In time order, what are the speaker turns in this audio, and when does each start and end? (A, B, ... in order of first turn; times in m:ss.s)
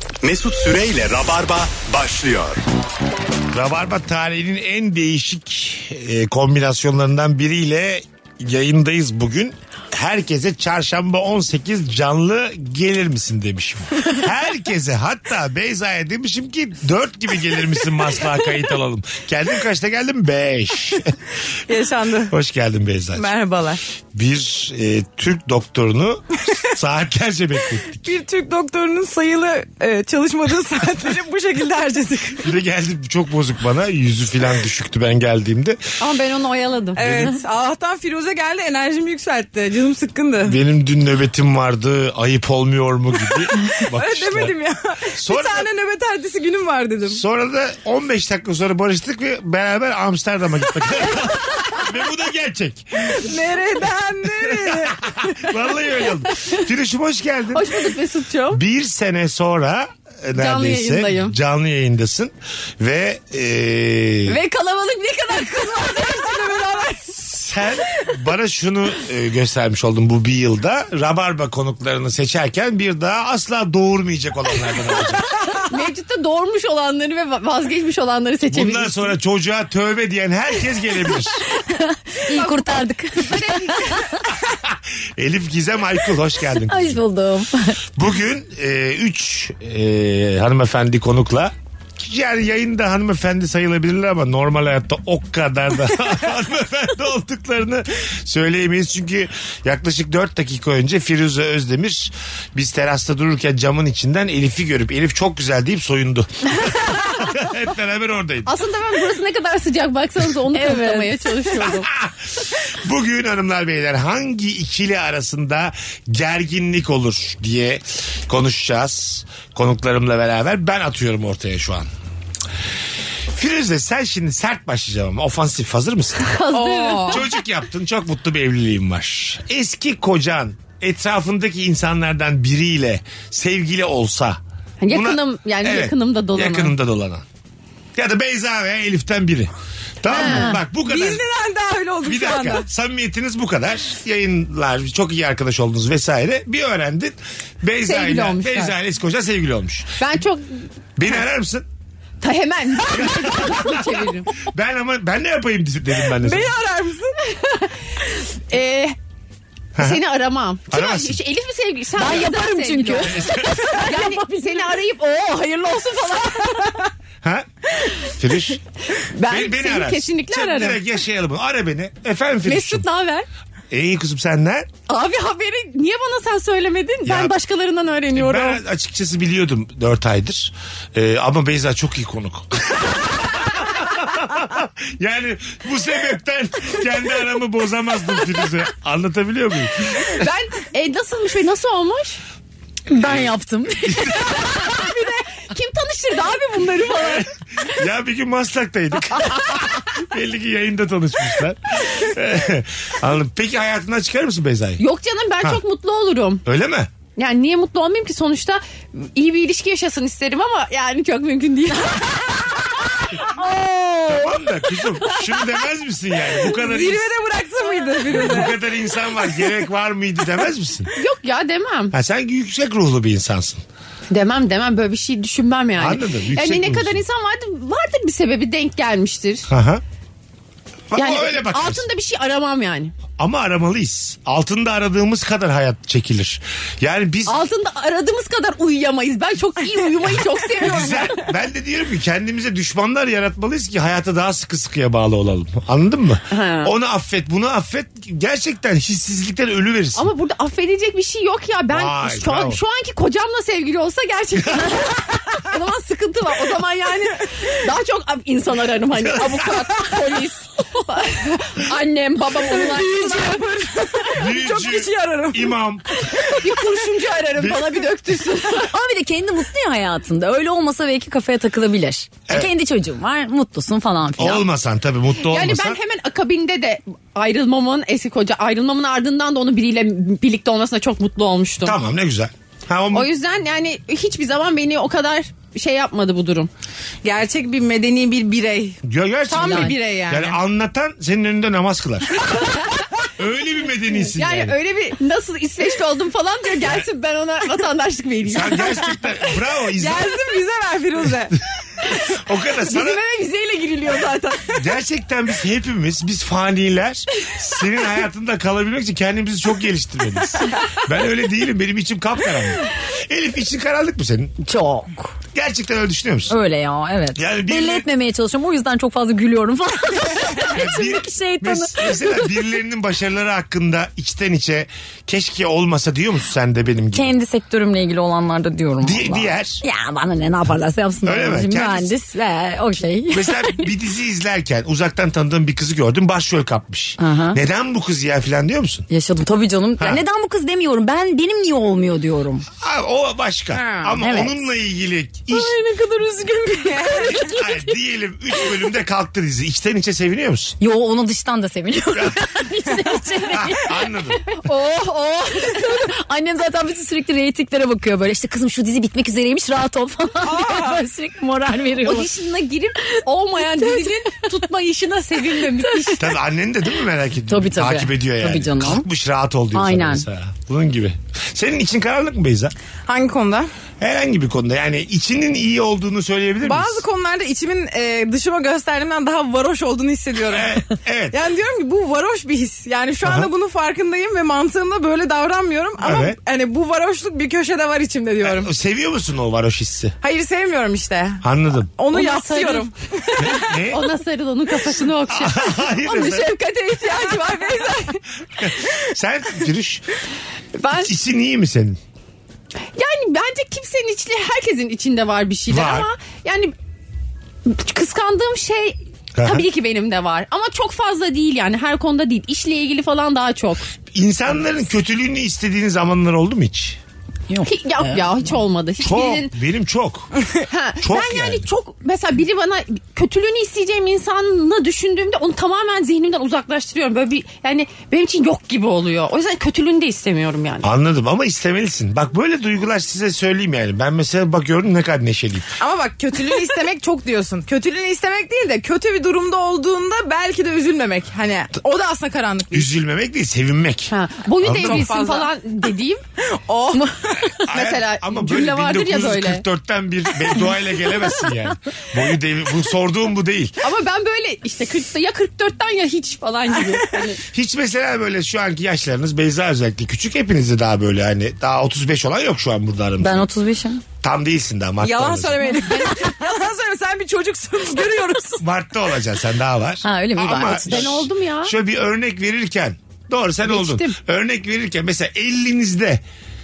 0:00.2-0:02.6 A
0:03.5-0:21.2 B
0:21.7-0:22.3 C
0:22.3-0:23.3 B
0:23.2-0:23.8 C
0:24.1-0:28.1 B
0:28.0-0:32.5 C
0:32.4-0:35.8 B
0:36.0-0:37.3 D
0:37.0-0:40.6 C
0:37.0-0:37.3 B
0:40.4-0:44.6 B
0:43.7-0:47.2 C
0:45.1-0:45.7 B
0:47.1-0:53.3 B
0:53.0-0:55.5 C
0:54.4-0:57.8 B
0:57.5-0:58.6 D
0:58.5-1:04.4 B
1:00.4-1:01.4 D
1:04.3-1:07.2 D
1:07.4-1:15.3 B
1:15.6-1:19.2 D
1:18.5-1:21.4 B
1:21.7-1:24.0 E
1:22.3-1:24.0 D
1:24.5-1:27.0 B
1:26.5-1:27.8 E
1:28.0-1:48.6 B
1:48.5-1:51.9 D
1:50.5-1:51.2 E
1:51.6-2:01.9 B
2:03.3-2:06.3 B
2:06.2-2:07.2 D
2:06.5-2:07.2 C
2:07.1-2:17.2 B
2:14.8-2:16.7 D
2:18.0-2:21.2 B
2:20.1-2:20.6 D
2:20.8-2:22.7 C
2:22.0-2:30.0 B
2:27.9-2:28.8 D
2:30.0-2:30.6 D
2:31.0-2:31.7 B
2:32.2-2:34.3 D
2:32.9-2:36.6 B
2:36.1-2:37.2 C
2:37.2-2:37.8 D
2:38.4-2:39.0 D
2:39.8-2:40.0 B
2:39.8-2:43.2 D
2:40.7-2:41.2 B
2:42.0-2:43.3 E
2:43.0-2:43.8 B
2:43.7-2:46.9 D
2:47.2-2:47.5 B
2:48.0-2:48.6 B
2:48.9-2:50.8 D
2:49.3-2:52.8 B
2:52.4-2:53.3 D
2:53.7-2:54.7 B
2:54.9-2:58.6 D
2:57.0-2:57.4 B
2:58.1-3:10.2 B
3:10.1-3:12.2 D
3:12.9-3:14.9 E
3:12.9-3:14.3 B
3:14.4-3:17.3 D
3:17.0-3:24.8 B
3:24.8-3:26.4 D
3:26.4-3:26.9 B
3:27.2-3:32.8 D
3:33.2-3:34.3 E
3:34.1-3:37.1 B
3:36.4-3:38.6 C
3:37.8-3:38.2 D
3:38.1-3:40.9 B
3:41.0-3:41.9 D
3:41.9-3:43.6 B
3:44.1-3:49.5 D
3:45.8-3:47.0 B
3:49.5-3:49.8 B
3:50.9-3:51.8 B
3:50.9-3:52.9 D
3:53.2-3:57.4 B
3:57.3-4:01.3 D
4:00.6-4:10.1 B
4:06.3-4:06.7 D
4:10.0-4:24.1 D
4:11.7-4:12.6 B
4:14.5-4:14.8 B
4:19.0-4:19.7 B
4:22.5-4:23.2 E
4:22.7-4:25.6 C
4:24.2-4:26.0 B
4:26.3-4:28.7 D
4:27.3-4:27.8 B
4:28.5-4:34.4 E
4:34.2-4:35.8 B
4:35.2-4:41.8 D
4:41.6-4:43.1 B
4:42.9-4:46.5 D
4:47.0-4:48.8 C
4:48.8-4:52.2 B
4:49.3-4:50.4 C
4:49.4-4:50.0 D
4:53.2-4:54.6 B
4:54.2-4:58.6 D
4:58.3-5:00.2 B
4:59.8-5:01.4 C
5:02.0-5:03.0 B
5:02.7-5:04.6 D
5:04.5-5:14.4 B
5:14.4-5:15.2 E
5:15.3-5:16.4 B
5:16.3-5:22.3 E
5:17.1-5:17.9 B
5:20.4-5:27.1 B
5:26.9-5:33.7 E
5:28.8-5:29.6 B
5:31.0-5:31.9 B
5:33.1-5:38.9 B
5:37.0-5:37.4 E
5:38.9-5:42.4 E
5:39.8-5:40.0 B
5:42.6-5:45.6 B
5:43.5-5:44.0 C
5:44.0-5:44.4 E
5:45.3-5:47.7 E
5:46.6-5:47.3 C
5:47.1-5:50.6 B
5:50.6-5:53.8 E
5:51.9-5:52.2 B
5:53.3-5:54.2 B
5:54.4-5:55.6 D
5:55.4-6:02.1 E
6:00.2-6:00.8 C
6:01.8-6:06.1 D
6:03.4-6:03.9 E
6:05.6-6:06.0 E
6:06.0-6:12.6 B
6:07.3-6:08.9 E
6:09.5-6:10.0 E
6:12.9-6:13.5 C
6:13.8-6:16.8 B
6:16.4-6:28.5 C
6:20.3-6:21.2 B
6:23.0-6:23.3 B
6:25.8-6:26.2 B
6:28.2-6:29.9 B
6:30.0-6:31.3 C
6:31.2-6:31.7 B
6:31.8-6:33.6 C
6:31.9-6:32.7 D
6:33.2-6:33.9 B
6:33.7-6:38.0 D
6:35.1-6:36.3 B
6:36.7-6:38.0 C
6:38.4-6:39.8 B
6:40.6-6:40.9 D
6:40.7-6:41.8 B
6:42.8-6:46.5 D
6:45.5-6:45.9 B
6:47.5-6:53.7 D
6:49.1-6:49.4 B
6:53.9-6:56.8 B
6:57.3-6:58.2 E
6:57.4-6:59.3 D
6:58.8-7:00.1 B
7:00.5-7:10.7 D
7:00.8-7:01.5 B
7:10.6-7:15.6 B
7:15.6-7:22.7 C
7:22.5-7:24.9 B
7:23.9-7:26.0 D
7:24.6-7:25.3 C
7:26.2-7:27.3 C
7:27.2-7:33.5 B
7:27.5-7:29.4 D
7:33.6-7:37.2 D
7:37.3-7:43.3 B
7:43.0-7:43.8 E
7:44.0-7:45.5 B
7:44.8-7:48.4 C
7:45.6-7:46.1 D
7:48.4-7:56.0 B
7:49.8-7:50.9 E
7:50.6-7:51.5 D
7:53.5-7:54.0 D